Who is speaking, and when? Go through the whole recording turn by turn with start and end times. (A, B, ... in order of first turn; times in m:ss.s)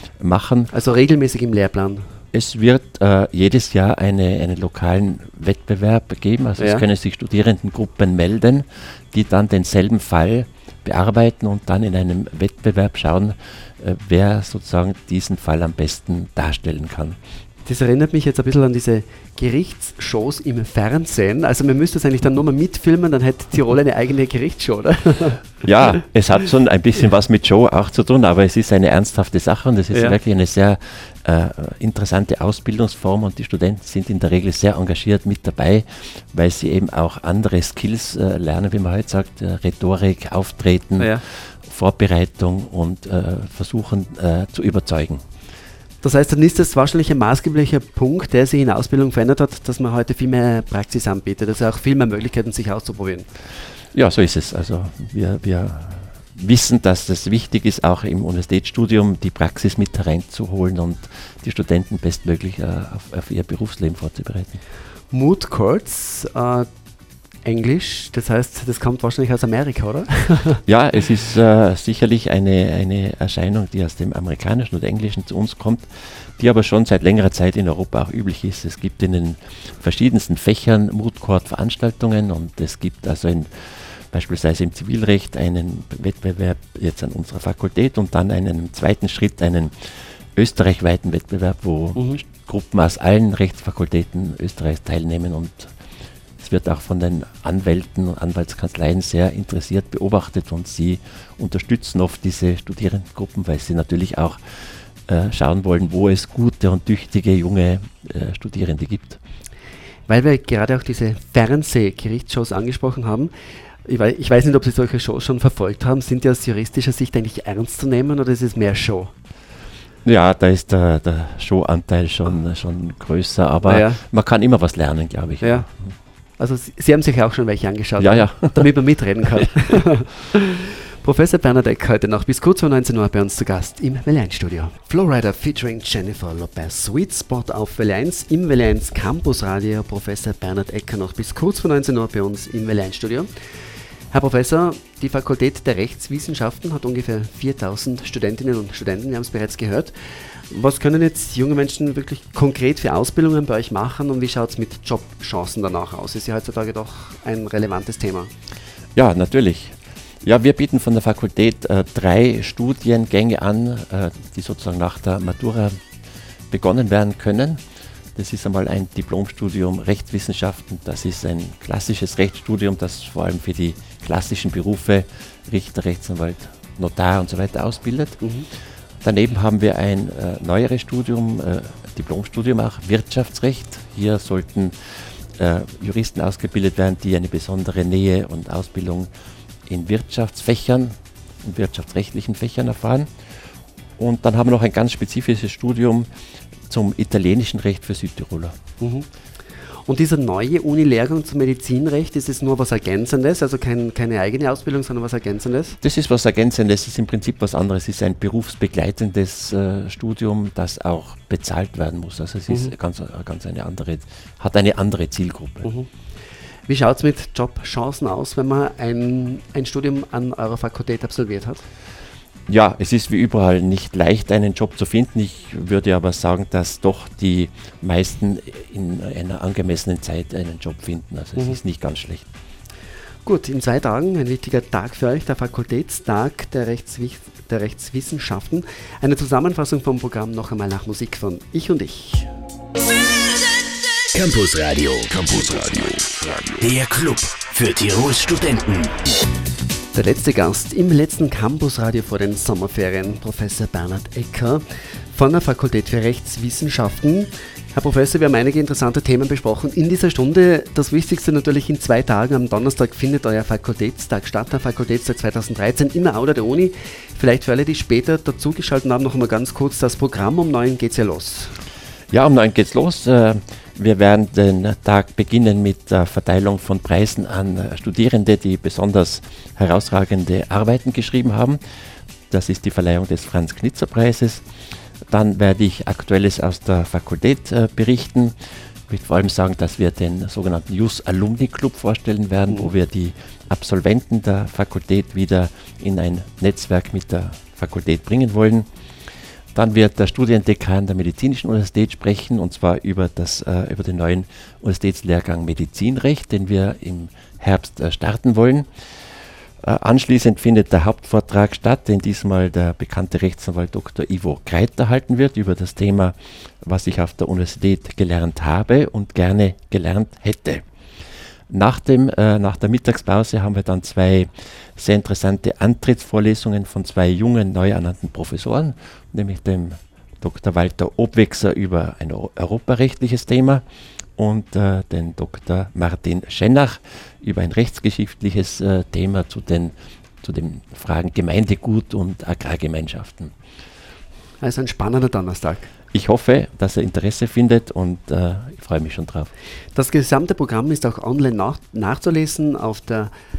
0:00.2-0:00.7 A
0:00.7-0:02.0 B
0:02.3-0:17.2 A
0:06.6-0:06.8 B
0:17.6-0:25.5 B
0:25.6-0:45.2 A
0:29.9-0:30.2 B
0:41.0-0:41.2 B
0:46.0-0:53.3 B
0:53.9-1:04.6 A
1:05.1-1:06.7 B
1:07.4-1:10.6 B
1:10.6-1:15.9 A
1:16.4-1:29.7 A
1:30.4-1:35.7 A
1:36.4-1:44.4 A
1:45.1-1:49.2 A
1:50.1-1:53.3 B
1:53.8-1:59.1 B
2:00.0-2:05.7 A
2:03.6-2:04.0 B
2:05.4-2:05.6 B
2:06.4-2:23.3 B
2:08.0-2:08.7 A
2:24.1-2:38.3 B
2:39.0-2:45.8 A
2:46.5-2:47.6 A
2:48.1-2:58.2 A
2:58.2-2:58.5 B
2:59.0-3:04.7 A
3:05.4-3:09.1 A
3:09.7-3:13.1 A
3:14.0-3:16.1 A
3:16.7-3:18.5 A
3:18.8-3:19.1 B
3:19.8-3:25.8 B
3:25.8-3:35.7 A
3:35.6-3:35.9 B
3:36.7-3:41.6 B
3:42.5-3:52.2 A
3:53.2-4:02.3 B
4:04.1-4:08.9 C
4:09.9-4:31.5 B
4:32.1-4:41.6 A
4:42.3-4:44.4 A
4:45.1-4:48.3 A
4:48.9-4:58.7 A
4:59.5-5:08.7 A
5:09.6-5:20.6 A
5:21.5-5:33.6 A
5:34.2-5:43.3 A
5:44.4-5:45.7 B
5:45.9-5:49.3 A
5:49.7-5:53.1 B